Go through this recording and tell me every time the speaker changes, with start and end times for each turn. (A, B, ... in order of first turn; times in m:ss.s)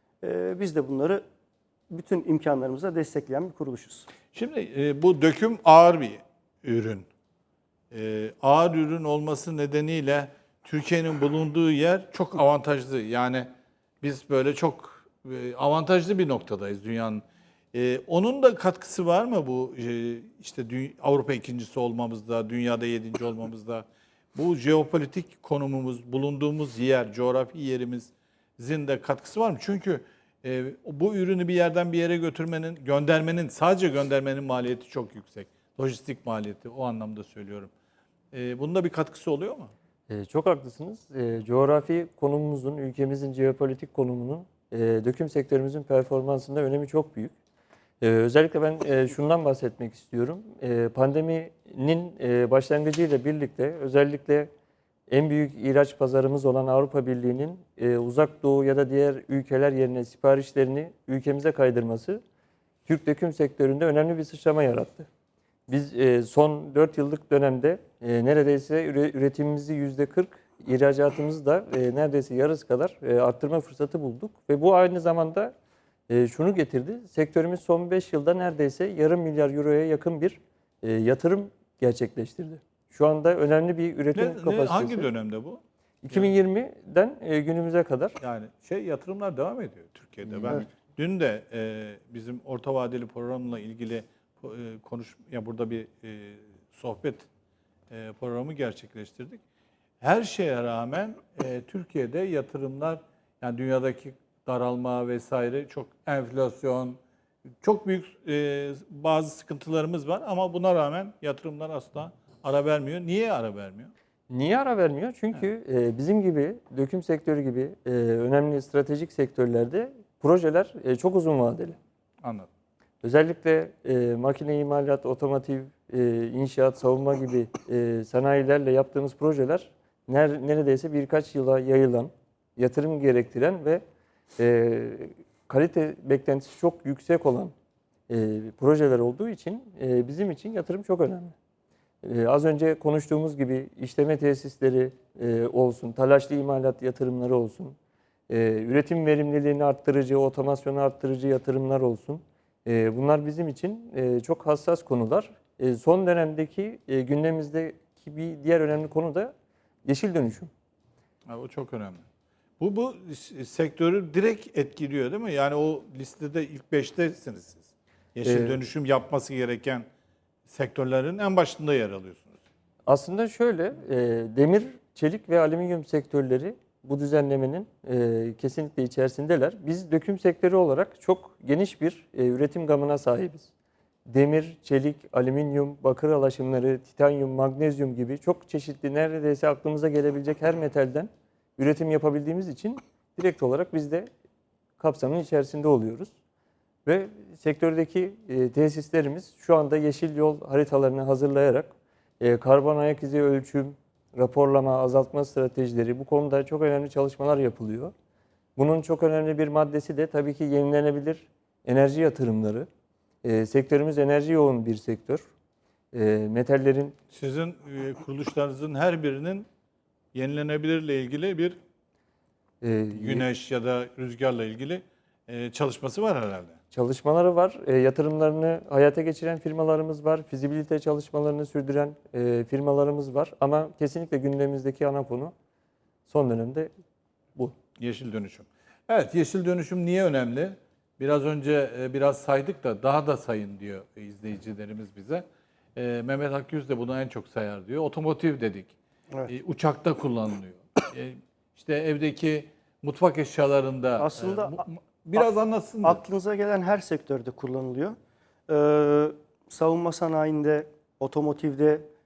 0:00.2-0:01.2 A
0:01.9-0:04.1 A
0:04.3-0:07.1 B
0:07.9-0:13.5 B
0:14.0-0:37.7 B
0:38.3-0:39.7 B
0:40.1-0:47.3 C
0:48.0-0:54.5 C
0:55.1-1:02.2 C
1:02.9-1:05.1 C
1:05.7-1:15.5 C
1:16.1-1:25.1 C
1:24.2-1:26.3 B
1:26.0-1:28.2 C
1:28.2-1:37.3 B
1:30.3-1:30.7 C
1:37.9-1:39.4 B
1:40.0-1:47.0 B
1:47.6-1:53.9 B
1:54.3-2:01.8 C
2:02.2-2:02.5 B
2:03.0-2:13.8 C
2:14.4-2:17.5 C
2:18.1-2:21.4 C
2:22.0-2:27.8 C
2:28.3-2:39.3 C
2:39.8-2:40.5 C
2:41.3-2:42.0 B
2:42.6-2:49.9 B
2:48.2-2:48.6 C
2:50.5-2:52.4 B
2:52.9-3:03.5 C
3:04.1-3:14.1 C
3:14.8-3:16.1 C
3:16.9-3:27.9 C
3:28.6-3:32.7 C
3:33.2-3:35.2 C
3:35.9-3:37.0 C
3:37.1-3:39.5 B
3:40.1-3:41.6 B
3:42.6-3:43.2 C
3:43.0-3:46.6 B
3:46.7-3:55.3 C
3:56.1-3:56.7 C
3:57.8-4:05.2 B
4:05.8-4:08.7 B
4:09.3-4:16.0 B
4:14.0-4:14.6 A
4:15.8-4:18.0 A
4:18.5-4:21.9 A